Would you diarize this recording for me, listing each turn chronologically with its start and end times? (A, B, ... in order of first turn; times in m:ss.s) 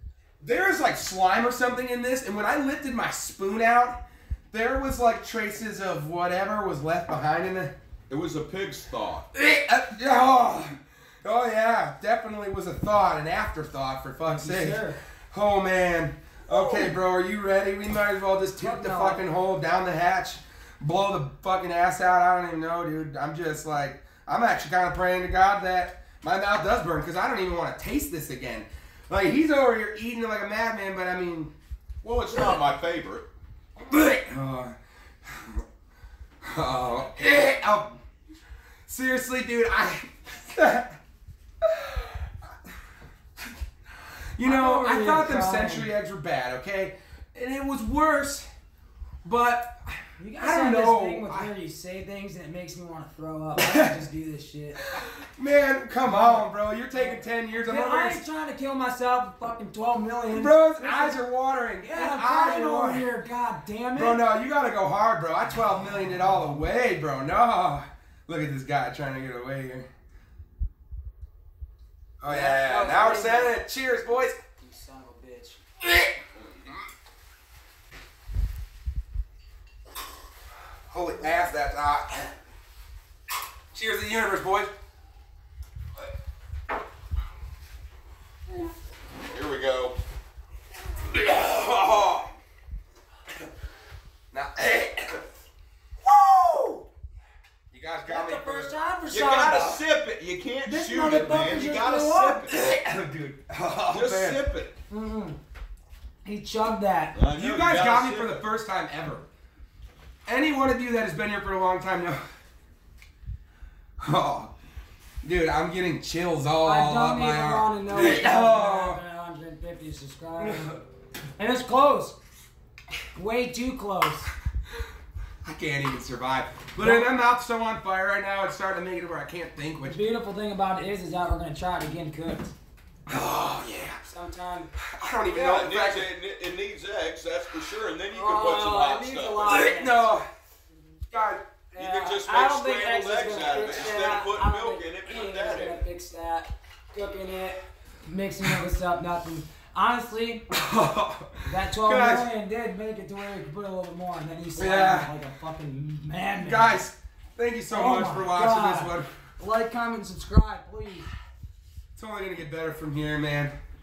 0:00.4-0:04.0 A
0:04.5-0:07.7 A
0:08.1-0:09.3 B
0:09.3-0:31.5 A
0:14.3-0:15.0 C
0:16.5-0:17.0 C
0:18.6-0:19.2 C
0:32.0-0:33.2 B
0:33.8-0:34.7 A
0:35.3-0:35.6 A
0:36.4-0:38.0 A
0:38.9-0:41.0 A
0:41.6-0:42.2 A
0:44.4-0:48.5 A
0:44.4-0:45.9 C
0:49.2-0:51.5 A
0:50.2-0:54.9 C
0:53.6-0:53.9 A
0:54.9-0:58.2 A
0:56.0-1:01.2 C
1:00.3-1:03.1 A
1:01.8-1:04.2 C
1:04.0-1:09.9 A
1:12.2-1:14.4 A
1:12.3-1:13.6 C
1:14.4-1:15.6 C
1:15.8-1:16.2 A
1:20.9-1:22.3 A
1:23.7-1:24.7 A
1:29.2-1:30.0 B
1:31.0-1:32.3 A
1:34.3-1:35.2 A
1:36.1-1:36.8 C
1:37.7-1:38.7 A
1:38.1-1:39.8 C
1:39.1-1:42.6 B
1:40.6-1:42.5 C
1:42.5-1:44.4 A
1:43.9-1:44.7 B
1:44.9-1:45.4 C
1:46.2-1:47.2 C
1:47.2-1:48.4 B
1:47.3-1:49.2 A
1:50.3-1:52.2 A
1:54.0-1:54.5 A
1:55.2-1:59.0 A
1:56.6-2:00.8 C
2:00.4-2:00.8 A
2:01.4-2:02.2 C
2:03.2-2:04.3 C
2:05.4-2:10.0 A
2:06.8-2:07.2 C
2:09.8-2:12.5 C
2:13.1-2:14.0 A
2:14.0-2:14.7 C
2:14.9-2:16.1 A
2:15.3-2:19.6 B
2:18.1-2:20.1 C
2:19.4-2:20.2 A
2:21.1-2:21.4 A
2:21.7-2:30.5 C
2:21.8-2:25.8 B
2:30.5-2:32.3 A
2:31.4-2:36.8 C
2:34.6-2:35.1 A
2:36.4-2:39.1 A
2:37.7-2:41.1 C
2:42.0-2:43.5 A